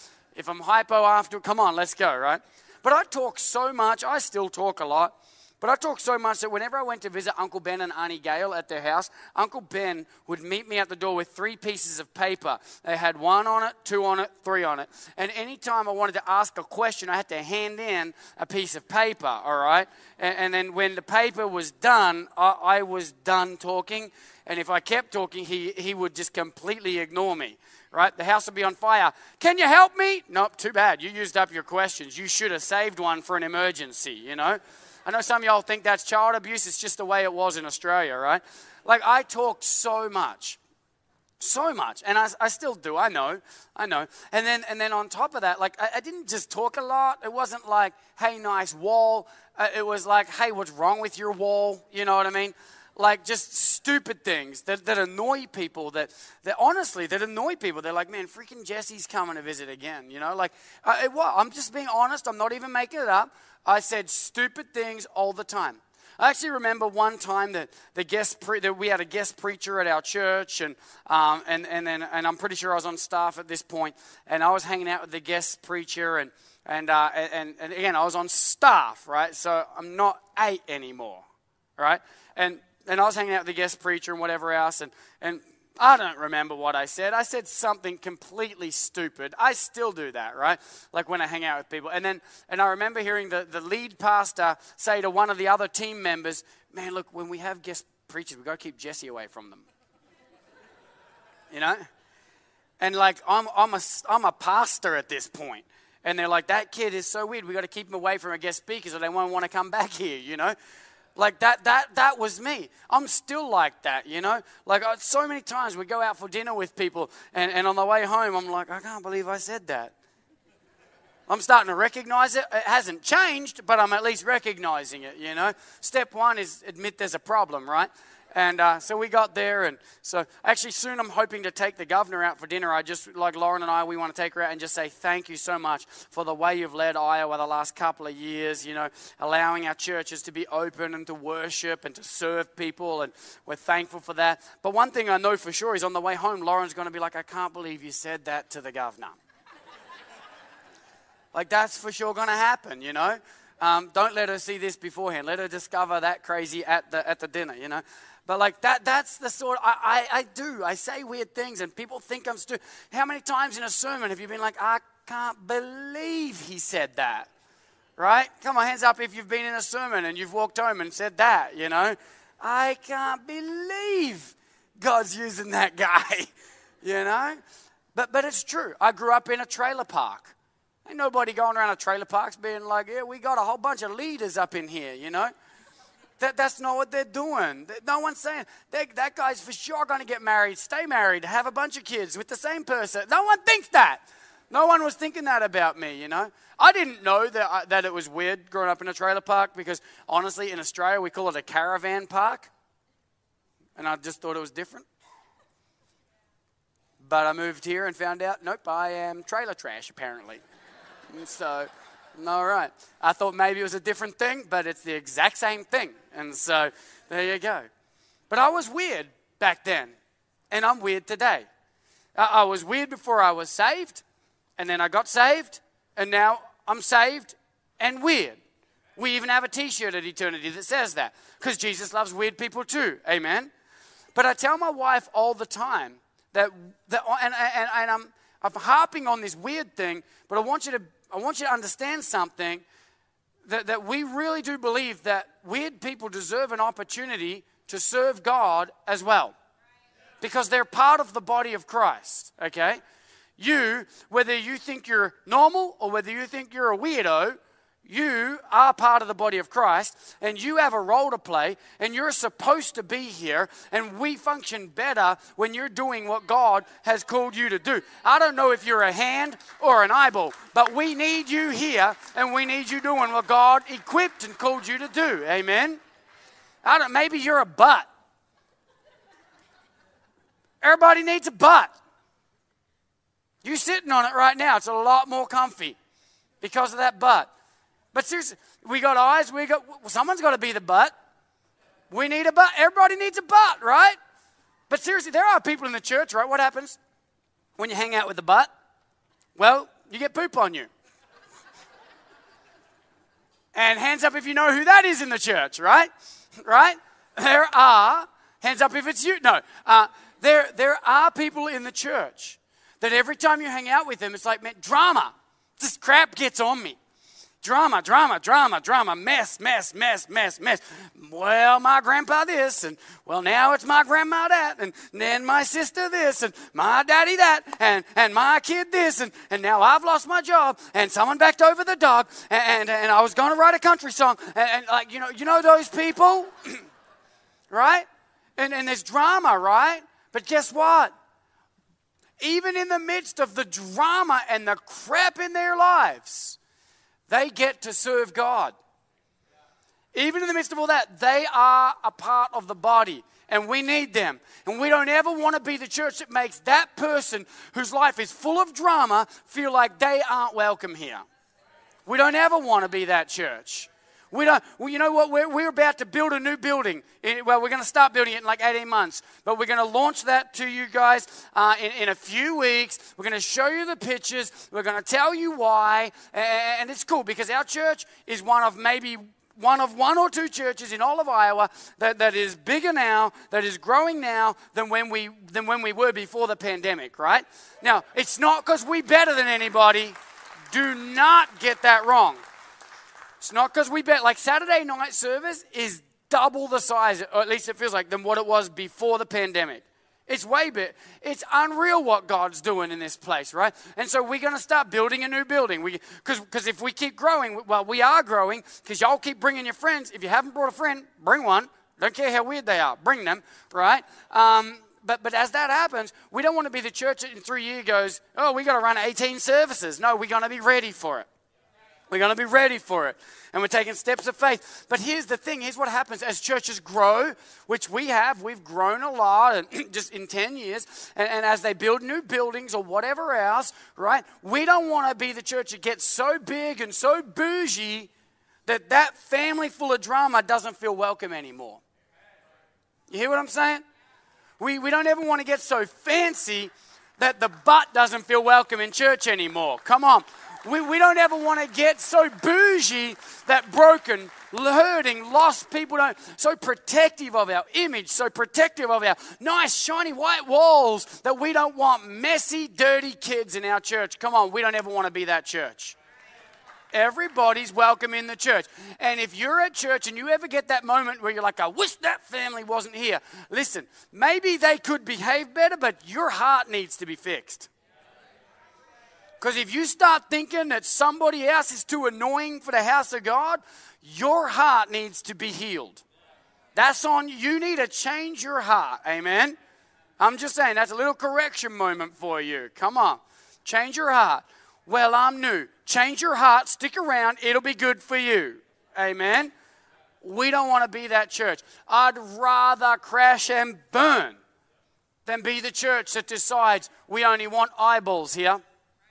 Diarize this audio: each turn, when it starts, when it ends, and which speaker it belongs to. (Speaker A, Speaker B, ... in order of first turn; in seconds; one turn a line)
Speaker A: 0.3-40.6
Speaker A: 41.4-81.2
Speaker A: 81.8-99.6
Speaker A: 101.5-101.8
Speaker A: 102.8-110.5
Speaker A: 111.2-119.9
Speaker A: 121.3-149.2
Speaker A: 151.3-167.3
Speaker A: 168.0-176.3
Speaker A: 176.8-177.4
Speaker A: 177.9-180.3
Speaker A: 180.8-185.3
Speaker A: 186.2-202.5
Speaker A: 203.8-204.8
Speaker A: 207.0-210.4
Speaker A: 211.1-217.7
Speaker A: 218.3-219.9
Speaker A: 220.5-221.5
Speaker A: 222.2-224.0
Speaker A: 224.6-228.4
Speaker A: 229.0-233.5
Speaker A: 234.1-242.6
Speaker A: 243.4-249.3
Speaker A: 250.2-252.8
Speaker A: 253.4-275.8
Speaker A: 276.6-277.9
Speaker A: 280.6-281.7
Speaker A: 283.4-285.8
Speaker A: 286.4-287.3
Speaker A: 287.9-290.9
Speaker A: 291.9-293.9
Speaker A: 294.7-296.8
Speaker A: 297.6-298.5
Speaker A: 299.4-300.7
Speaker A: 303.5-305.9
Speaker A: 306.4-316.8
Speaker A: 317.4-336.6
Speaker A: 337.5-337.9
Speaker A: 338.4-340.9
Speaker A: 342.2-346.4
Speaker A: 347.1-348.5
Speaker A: 349.9-361.0
Speaker A: 361.9-389.9
Speaker A: 390.5-392.2
Speaker A: 393.2-421.1
Speaker A: 421.9-437.9
Speaker A: 438.5-441.6
Speaker A: 442.9-443.6
Speaker A: 444.4-465.8
Speaker A: 466.7-477.5
Speaker A: 479.2-485.8
Speaker A: 486.5-489.4
Speaker A: 490.0-499.3
Speaker A: 500.0-504.2
Speaker A: 505.1-508.4